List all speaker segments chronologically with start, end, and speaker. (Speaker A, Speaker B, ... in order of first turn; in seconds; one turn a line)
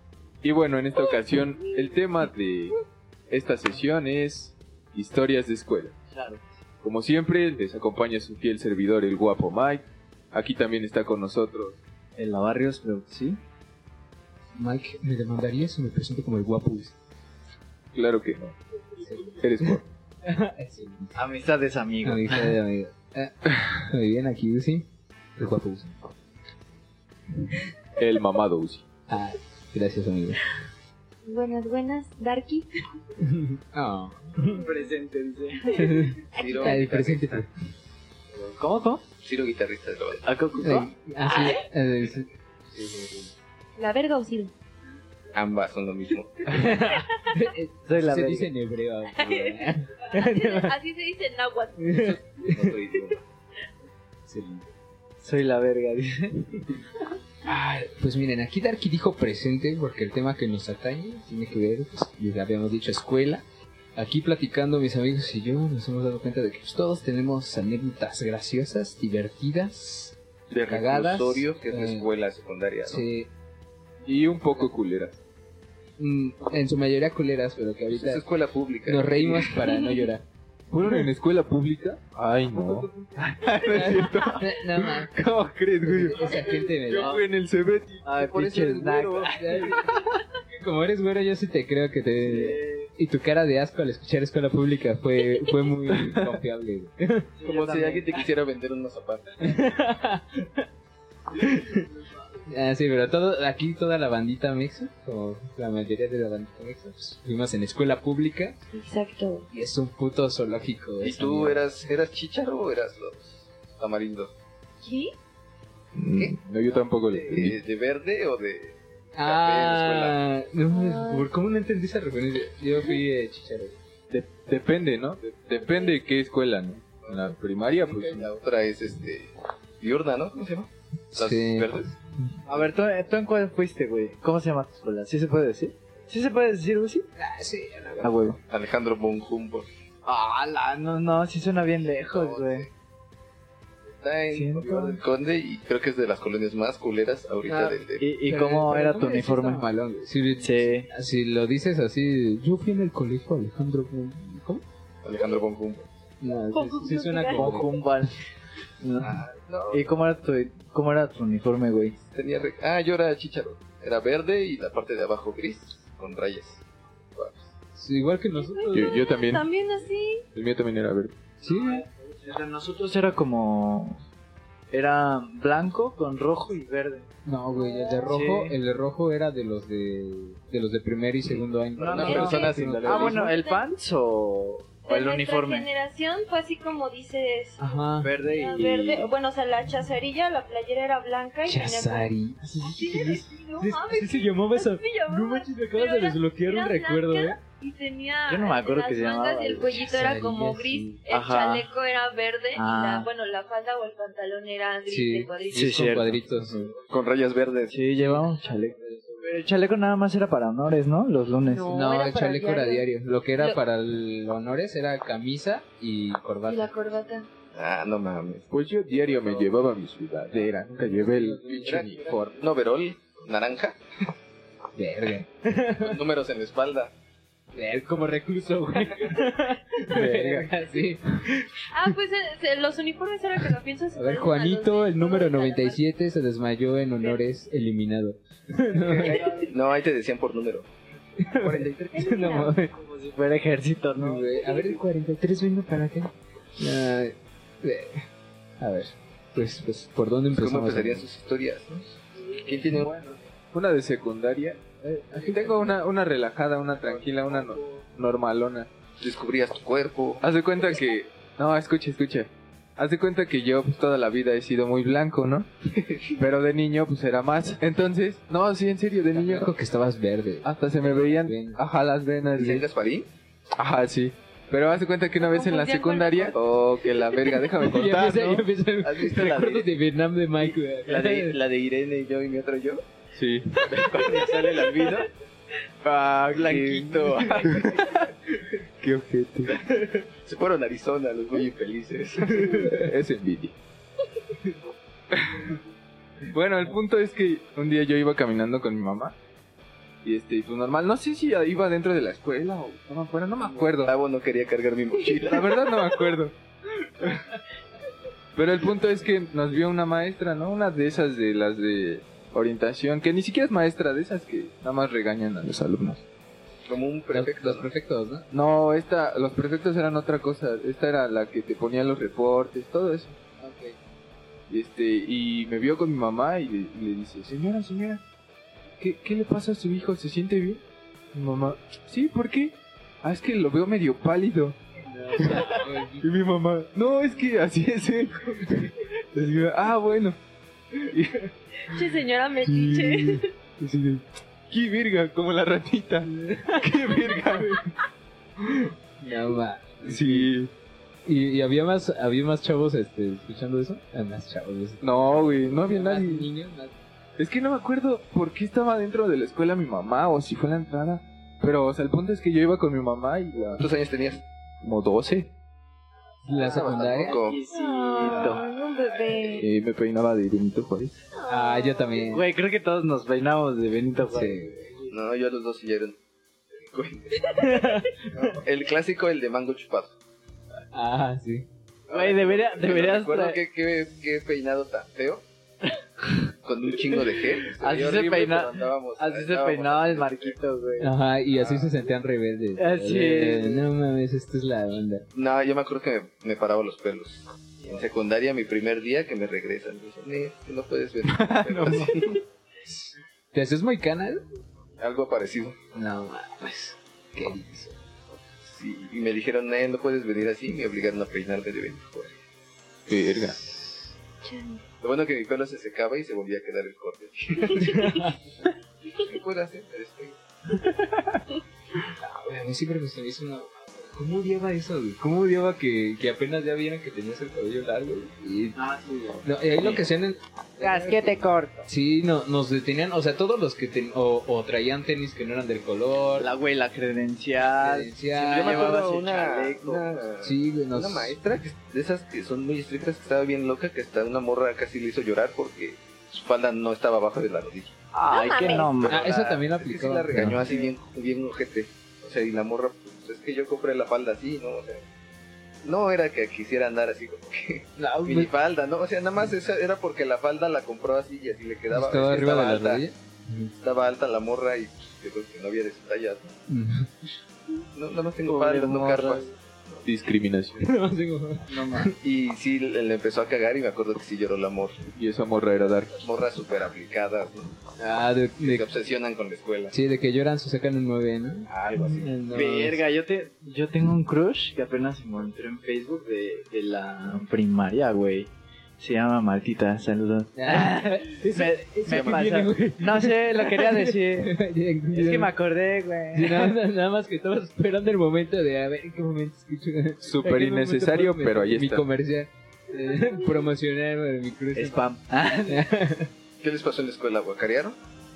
Speaker A: 0.4-2.8
Speaker A: 3.3-5.9
Speaker B: 6.1-6.5
Speaker A: 6.8-11.8
Speaker B: 12.2-13.4
Speaker C: 14.6-16.9
Speaker A: 17.9-18.6
Speaker C: 19.0-21.2
Speaker A: 19.4-19.8
Speaker B: 21.2-22.6
Speaker C: 22.0-25.9
Speaker A: 28.0-28.8
Speaker C: 29.1-30.4
Speaker D: 31.2-32.7
Speaker C: 33.2-34.6
Speaker B: 34.5-36.2
Speaker C: 35.7-37.5
Speaker D: 36.3-36.8
Speaker E: 36.3-37.5
Speaker B: 38.6-39.0
Speaker E: 39.2-40.4
Speaker B: 40.2-40.9
Speaker C: 40.6-43.3
Speaker D: 41.3-41.6
Speaker D: 43.8-44.5
Speaker E: 45.3-46.8
Speaker C: 46.5-50.7
Speaker B: 47.9-48.5
Speaker D: 49.1-52.2
Speaker C: 51.8-52.7
Speaker E: 52.0-53.2
Speaker C: 54.3-54.7
Speaker B: 55.2-56.6
Speaker C: 57.5-63.4
Speaker C: 64.0-70.1
Speaker E: 70.5-73.0
Speaker C: 70.7-72.1
Speaker C: 72.8-73.3
Speaker A: 74.0-75.2
Speaker C: 76.0-78.2
Speaker E: 77.9-79.5
Speaker C: 78.8-81.1
Speaker A: 80.7-88.0
Speaker C: 82.6-82.9
Speaker C: 83.5-85.1
Speaker C: 85.8-87.2
Speaker B: 86.9-87.2
Speaker B: 88.0-90.0
Speaker E: 88.2-89.7
Speaker C: 89.3-90.0
Speaker C: 90.5-97.3
Speaker B: 92.2-92.9
Speaker A: 96.0-96.3
Speaker B: 97.3-98.2
Speaker E: 97.4-99.6
Speaker C: 99.4-100.6
Speaker C: 101.4-101.9
Speaker C: 102.5-108.5
Speaker D: 108.7-109.5
Speaker C: 109.5-111.6
Speaker E: 111.0-114.3
Speaker D: 114.8-115.1
Speaker A: 115.9-117.6
Speaker B: 116.7-117.4
Speaker E: 117.3-120.2
Speaker C: 119.2-123.8
Speaker D: 120.7-121.3
Speaker A: 124.1-128.3
Speaker E: 127.1-131.9
Speaker C: 131.1-131.7
Speaker B: 132.5-137.1
Speaker C: 137.2-138.3
Speaker B: 138.0-138.4
Speaker E: 138.4-139.7
Speaker B: 140.1-142.7
Speaker E: 142.1-142.7
Speaker E: 143.9-148.0
Speaker B: 144.3-145.0
Speaker C: 147.5-154.6
Speaker B: 148.0-149.6
Speaker B: 150.4-150.9
Speaker E: 155.0-155.9
Speaker C: 156.2-157.7
Speaker D: 156.5-157.8
Speaker B: 157.3-158.1
Speaker B: 158.8-162.0
Speaker E: 159.0-159.9
Speaker E: 162.1-167.4
Speaker C: 167.8-169.0
Speaker D: 168.3-170.2
Speaker A: 168.7-169.5
Speaker A: 170.3-171.1
Speaker C: 171.4-171.8
Speaker B: 171.4-174.0
Speaker B: 174.7-177.1
Speaker C: 177.2-183.2
Speaker D: 177.6-178.1
Speaker B: 178.1-178.6
Speaker E: 181.8-183.3
Speaker B: 181.8-185.7
Speaker D: 182.1-182.5
Speaker A: 182.5-183.1
Speaker D: 183.0-183.6
Speaker D: 184.9-187.6
Speaker C: 187.6-188.1
Speaker B: 188.0-189.0
Speaker D: 188.2-192.1
Speaker C: 191.4-192.4
Speaker B: 192.4-193.2
Speaker D: 192.6-205.9
Speaker C: 193.6-197.4
Speaker B: 198.3-199.8
Speaker C: 199.8-201.0
Speaker B: 201.1-201.7
Speaker B: 202.6-203.1
Speaker C: 204.9-206.6
Speaker B: 205.5-206.8
Speaker E: 206.9-207.8
Speaker B: 207.7-211.7
Speaker C: 208.0-208.3
Speaker D: 211.4-212.8
Speaker C: 211.7-216.7
Speaker D: 216.5-217.2
Speaker E: 217.5-219.5
Speaker A: 218.5-222.4
Speaker C: 220.3-222.3
Speaker E: 221.6-223.8
Speaker C: 224.8-226.0
Speaker E: 225.8-226.9
Speaker C: 227.5-231.5
Speaker A: 229.9-230.5
Speaker D: 231.7-235.8
Speaker C: 233.9-239.3
Speaker B: 238.7-239.5
Speaker E: 238.8-240.7
Speaker C: 241.2-242.7
Speaker E: 241.4-241.9
Speaker D: 241.9-242.5
Speaker B: 242.7-244.8
Speaker C: 244.0-248.0
Speaker C: 248.6-251.1
Speaker E: 250.3-252.9
Speaker A: 252.8-258.7
Speaker C: 254.8-255.7
Speaker E: 256.8-257.6
Speaker E: 259.0-260.2
Speaker A: 260.2-265.5
Speaker E: 265.7-266.1
Speaker A: 266.2-269.5
Speaker C: 269.1-271.6
Speaker A: 270.4-272.6
Speaker E: 272.4-273.1
Speaker A: 273.6-278.5
Speaker D: 275.2-276.4
Speaker E: 276.4-276.9
Speaker C: 277.6-281.4
Speaker E: 278.8-279.7
Speaker E: 280.4-282.9
Speaker A: 283.1-285.0
Speaker E: 283.6-285.1
Speaker A: 285.8-289.6
Speaker E: 286.3-287.6
Speaker E: 290.2-292.8
Speaker A: 292.4-293.6
Speaker A: 295.1-295.5
Speaker A: 296.3-299.1
Speaker A: 300.0-303.9
Speaker E: 303.8-305.6
Speaker A: 305.2-306.3
Speaker A: 307.0-307.4
Speaker A: 308.4-316.0
Speaker E: 316.7-317.7
Speaker C: 317.1-318.2
Speaker A: 318.3-323.2
Speaker C: 323.4-323.8
Speaker A: 324.5-328.0
Speaker A: 328.8-330.6
Speaker A: 331.1-334.6
Speaker C: 334.9-336.1
Speaker A: 335.2-340.2
Speaker A: 340.8-341.8
Speaker D: 341.6-343.3
Speaker A: 342.4-347.6
Speaker C: 346.1-347.7
Speaker C: 348.4-350.3
Speaker A: 349.8-350.5
Speaker C: 351.1-356.7
Speaker A: 354.8-356.3
Speaker A: 357.2-363.6
Speaker E: 363.6-364.2
Speaker A: 364.6-365.3
Speaker C: 366.2-367.2
Speaker E: 366.3-367.4
Speaker B: 366.5-368.5
Speaker D: 367.5-369.5
Speaker A: 369.3-371.0
Speaker D: 371.2-372.0
Speaker C: 371.2-372.2
Speaker B: 372.1-374.9
Speaker C: 374.1-374.5
Speaker E: 374.9-376.0
Speaker E: 376.5-377.6
Speaker C: 377.4-378.4
Speaker E: 378.2-379.9
Speaker C: 380.7-381.5
Speaker E: 381.9-385.2
Speaker B: 381.9-383.4
Speaker E: 386.4-390.4
Speaker B: 387.4-390.9
Speaker C: 390.8-395.1
Speaker E: 391.3-391.9
Speaker B: 392.6-393.6
Speaker E: 395.1-402.2
Speaker B: 401.2-402.2
Speaker C: 403.3-404.2
Speaker E: 404.8-405.6
Speaker C: 405.8-407.8
Speaker E: 408.5-412.1
Speaker A: 412.9-413.5
Speaker D: 414.2-414.6
Speaker E: 414.8-417.9
Speaker C: 417.6-418.1
Speaker E: 418.9-420.2
Speaker C: 421.9-428.6
Speaker B: 428.6-429.8
Speaker C: 429.2-436.3
Speaker B: 430.6-431.6
Speaker B: 436.2-439.9
Speaker C: 437.6-438.8
Speaker E: 438.3-447.7
Speaker C: 440.2-441.2
Speaker B: 447.9-449.4
Speaker D: 448.1-448.7
Speaker E: 448.7-454.8
Speaker C: 448.9-450.4
Speaker B: 450.4-450.7
Speaker E: 455.6-462.9
Speaker C: 457.8-458.3
Speaker C: 461.7-463.5
Speaker E: 463.6-466.3
Speaker C: 466.5-466.9
Speaker E: 467.7-469.8
Speaker B: 468.2-469.3
Speaker A: 469.8-470.7
Speaker C: 470.6-471.9
Speaker B: 471.5-471.9
Speaker E: 472.0-474.9
Speaker A: 474.9-476.0
Speaker E: 476.0-477.6
Speaker C: 477.8-478.7
Speaker E: 478.4-479.7
Speaker C: 479.7-482.8
Speaker E: 481.5-482.1
Speaker B: 482.3-494.4
Speaker C: 490.4-495.3
Speaker E: 491.9-492.4
Speaker B: 494.9-496.6
Speaker C: 496.1-504.8
Speaker A: 500.0-501.9
Speaker B: 504.6-505.7
Speaker C: 505.5-506.1
Speaker E: 506.4-507.8